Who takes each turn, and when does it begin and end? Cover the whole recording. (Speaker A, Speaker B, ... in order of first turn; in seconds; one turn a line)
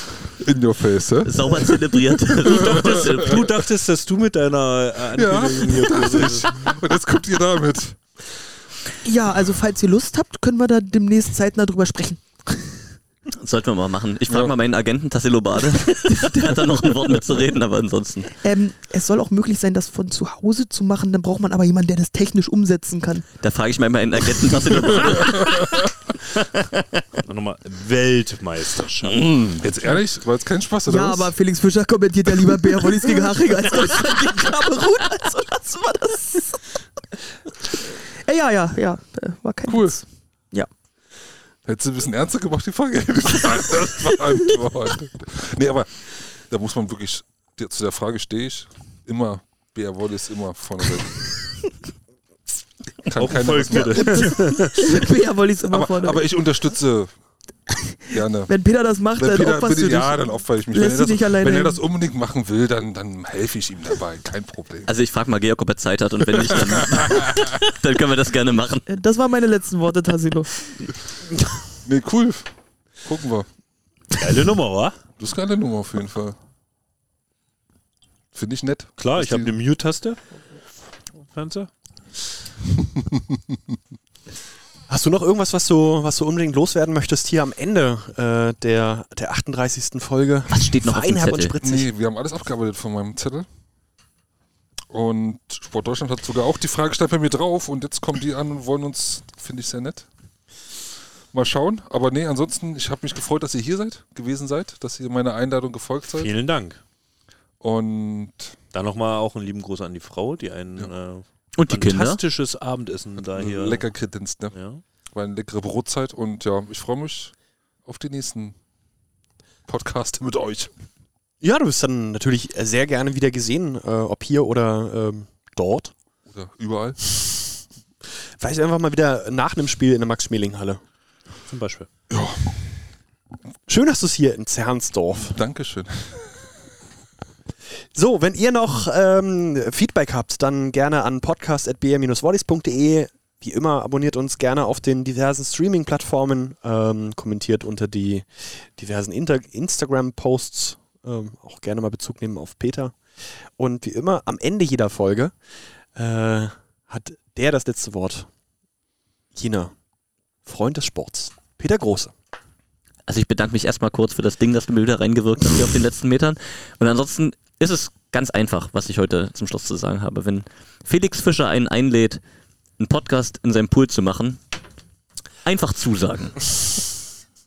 Speaker A: 0.2-3.4
Speaker B: 1.2-3.5
Speaker C: 2.5-6.6
Speaker A: 5.1-8.0
Speaker D: 9.0-12.6
Speaker B: 13.3-18.3
Speaker D: 16.1-17.1
Speaker D: 18.4-23.3
Speaker B: 23.4-25.8
Speaker A: 24.9-25.8
Speaker C: 27.2-29.3
Speaker A: 29.3-31.3
Speaker D: 30.9-36.6
Speaker D: 37.6-40.7
Speaker A: 39.6-40.0
Speaker A: 41.6-51.3
Speaker A: 53.0-55.1
Speaker C: 53.1-54.7
Speaker D: 54.2-56.2
Speaker A: 55.7-57.1
Speaker D: 57.7-60.2
Speaker A: 58.1-58.5
Speaker A: 59.1-64.9
Speaker D: 60.7-61.8
Speaker B: 64.9-68.8
Speaker A: 66.4-67.6
Speaker D: 68.9-70.9
Speaker A: 71.8-72.5
Speaker A: 73.0-73.5
Speaker C: 74.2-75.0
Speaker A: 75.2-76.4
Speaker A: 78.3-79.5
Speaker C: 79.0-80.2
Speaker C: 81.2-81.7
Speaker A: 82.8-83.8
Speaker E: 84.9-91.9
Speaker B: 90.5-91.5
Speaker A: 91.6-93.5
Speaker A: 94.9-100.1
Speaker A: 101.3-106.3
Speaker C: 106.1-106.8
Speaker A: 107.6-108.5
Speaker C: 108.7-113.9
Speaker B: 111.6-112.2
Speaker A: 113.3-114.5
Speaker C: 114.5-114.8
Speaker A: 115.1-117.3
Speaker A: 117.8-118.5
Speaker A: 119.7-120.7
Speaker E: 121.4-125.9
Speaker A: 126.3-127.0
Speaker E: 128.4-130.8
Speaker C: 131.4-131.9
Speaker A: 132.1-132.6
Speaker E: 133.7-135.4
Speaker A: 135.2-136.4
Speaker E: 137.9-153.0
Speaker E: 153.6-155.3
Speaker E: 155.9-158.3
Speaker E: 159.3-159.7
Speaker E: 160.4-162.1
Speaker B: 163.1-172.2
Speaker B: 172.8-174.4
Speaker B: 175.4-176.8